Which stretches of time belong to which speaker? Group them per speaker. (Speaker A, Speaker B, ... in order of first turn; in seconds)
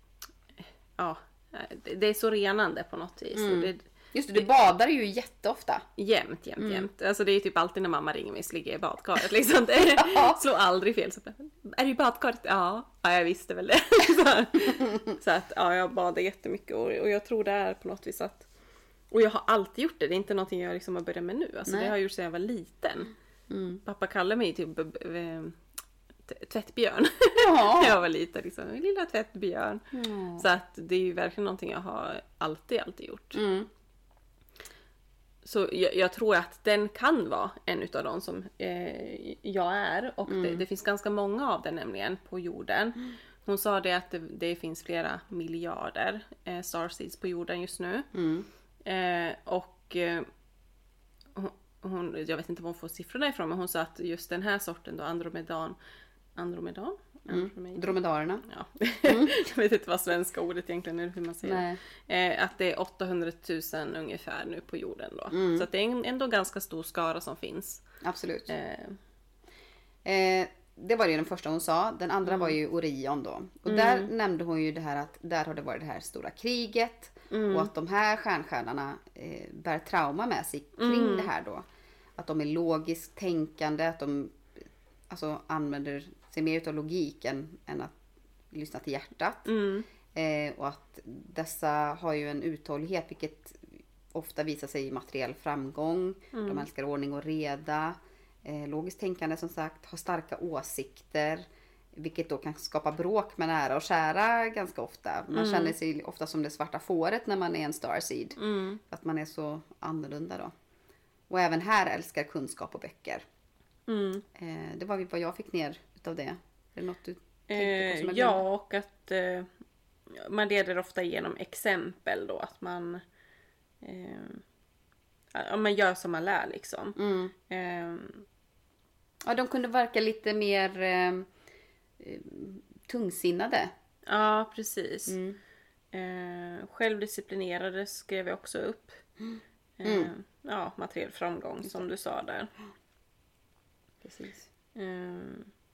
Speaker A: 1.0-3.8, 6.0-18.5, 19.1-23.1, 23.9-25.6, 26.3-29.8, 30.4-33.4, 35.5-48.1, 48.8-50.3, 51.4-55.8, 56.4-67.8, 68.5-69.0, 72.3-72.5, 73.7-74.1, 77.3-77.7, 80.8-81.3, 89.5-89.9, 96.3-96.7, 105.3-105.8, 108.4-108.8, 113.9-114.2, 117.5-119.5, 120.1-123.0, 123.8-124.4, 125.3-128.2, 134.1-135.2, 135.9-139.0, 139.8-142.5, 144.8-145.5
Speaker B: 3.3-5.8, 6.6-6.9, 10.0-10.4, 21.7-21.9, 23.5-23.8, 27.4-28.0, 29.9-30.5, 33.3-33.7, 40.3-40.6, 48.1-48.5, 57.3-58.5, 59.1-59.3, 61.4-61.8, 65.3-65.7, 68.0-68.5, 70.0-81.7, 82.2-84.4, 85.1-88.0, 88.5-89.5, 90.1-108.4, 108.9-110.5, 111.3-113.2, 114.3-118.4, 127.0-127.3, 129.2-131.3, 132.0-133.7, 135.1-135.4, 139.8-140.1, 144.0-144.5